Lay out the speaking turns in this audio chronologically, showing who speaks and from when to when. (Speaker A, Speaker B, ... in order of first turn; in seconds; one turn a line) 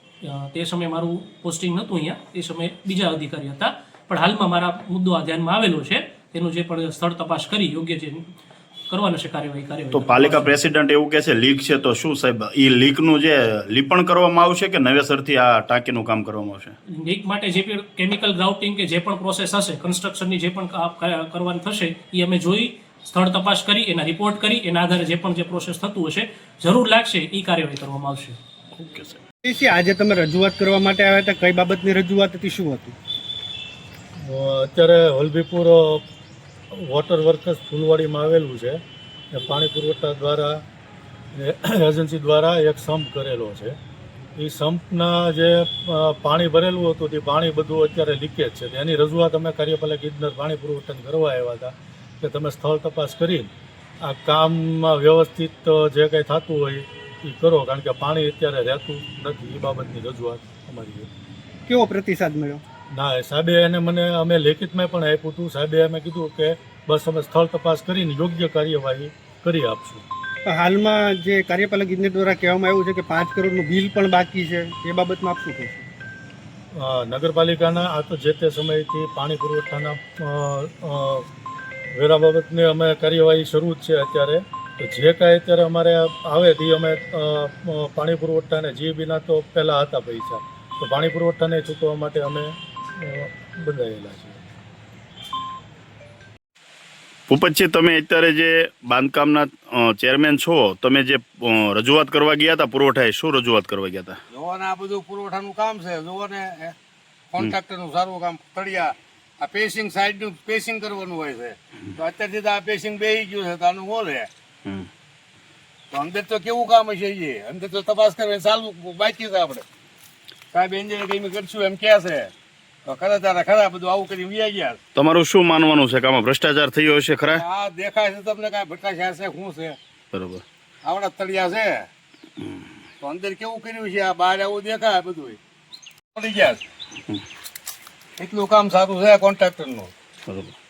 Speaker A: 0.2-8.2
Speaker A: 8.9-10.6
Speaker B: 9.9-16.8
Speaker A: 16.9-28.4
Speaker B: 28.7-29.2
Speaker C: 29.4-32.9
Speaker D: 34.2-36.0
Speaker D: 36.7-38.8
Speaker D: 39.3-40.6
Speaker D: 41.3-43.8
Speaker D: 44.4-53.5
Speaker D: 54.0-61.1
Speaker C: 61.7-62.6
Speaker D: 62.9-70.0
Speaker C: 70.4-75.8
Speaker D: 76.7-81.2
Speaker D: 81.9-94.4
Speaker B: 97.3-104.2
Speaker E: 104.3-106.7
Speaker E: 107.3-114.3
Speaker E: 115.9-119.6
Speaker E: 120.5-122.3
Speaker E: 122.8-124.8
Speaker B: 124.9-127.4
Speaker E: 127.3-129.8
Speaker B: 130.1-130.4
Speaker E: 130.8-131.9
Speaker E: 133.0-135.4
Speaker E: 136.2-136.6
Speaker E: 138.2-139.9
Speaker B: 140.3-140.5